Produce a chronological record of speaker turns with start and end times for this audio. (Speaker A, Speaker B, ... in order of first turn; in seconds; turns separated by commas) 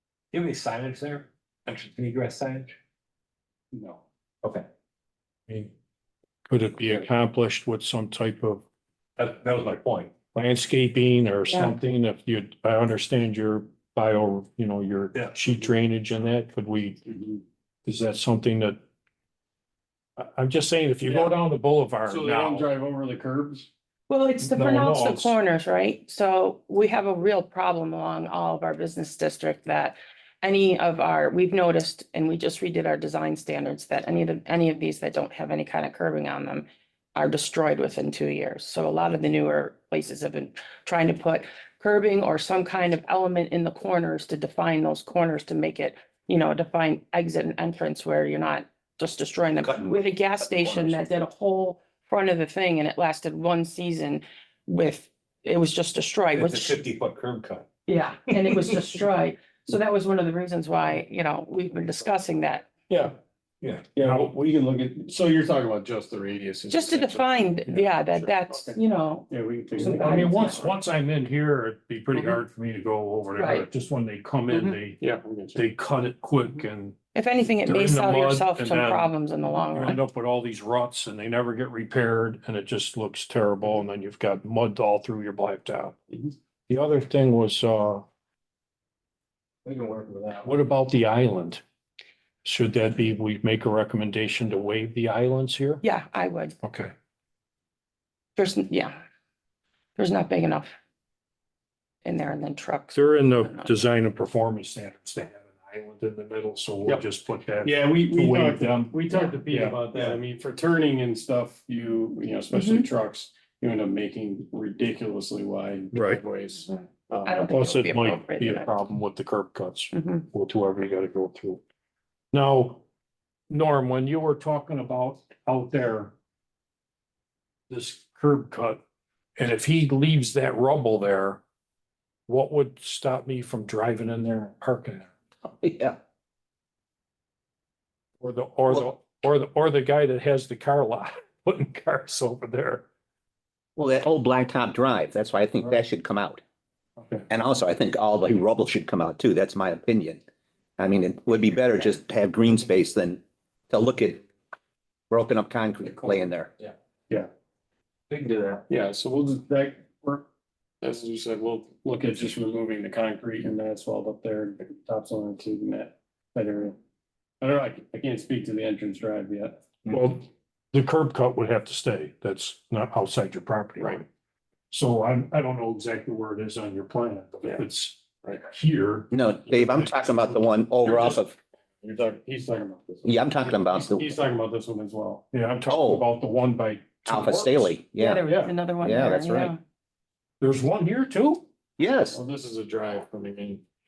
Speaker A: 0.3-2.7, Speaker A: 3.7-4.7, Speaker B: 6.5-8.6, Speaker A: 9.2-10.1, Speaker B: 10.3-17.0, Speaker C: 17.1-17.4, Speaker B: 17.8-18.8, Speaker B: 20.2-22.7, Speaker C: 21.0-21.4, Speaker C: 22.1-23.7, Speaker D: 24.1-56.8, Speaker B: 24.4-25.3, Speaker A: 56.4-57.6, Speaker D: 57.9-62.7, Speaker A: 63.6-64.4, Speaker B: 64.0-64.3, Speaker C: 64.3-70.2, Speaker D: 66.7-70.7, Speaker B: 69.8-75.0, Speaker D: 73.4-73.7, Speaker C: 74.5-75.6, Speaker B: 75.5-77.0, Speaker D: 77.1-80.0, Speaker B: 77.6-86.0, Speaker B: 86.7-88.0, Speaker A: 89.6-90.5, Speaker B: 90.4-91.6, Speaker B: 92.4-95.8, Speaker D: 95.8-96.5, Speaker B: 96.6-96.9, Speaker D: 98.3-99.0, Speaker D: 100.0-100.7, Speaker D: 102.0-103.7, Speaker B: 102.9-108.8, Speaker C: 107.6-117.5, Speaker D: 109.1-109.4, Speaker B: 109.5-110.0, Speaker D: 112.5-112.9, Speaker B: 115.9-116.2, Speaker D: 116.7-118.7, Speaker B: 117.5-121.6, Speaker D: 119.9-120.3, Speaker B: 122.3-122.8, Speaker B: 123.5-126.1, Speaker B: 127.7-128.8, Speaker B: 129.3-131.4, Speaker B: 132.3-135.1, Speaker E: 135.6-136.0, Speaker B: 138.2-142.8, Speaker E: 143.8-146.4, Speaker E: 147.3-150.2, Speaker E: 150.8-154.3, Speaker E: 155.1-156.5, Speaker A: 158.1-158.6, Speaker C: 158.7-160.2, Speaker C: 160.8-166.8, Speaker C: 167.4-169.7, Speaker B: 169.9-174.1, Speaker C: 173.8-174.0, Speaker B: 174.7-179.9, Speaker E: 179.1-181.3, Speaker B: 180.8-181.2, Speaker C: 181.8-185.3, Speaker E: 183.0-184.1, Speaker B: 185.3-188.5, Speaker E: 185.7-186.1, Speaker E: 187.1-188.2, Speaker D: 187.9-189.6, Speaker E: 188.8-189.5, Speaker B: 190.4-191.4, Speaker E: 191.8-192.2, Speaker C: 192.1-193.6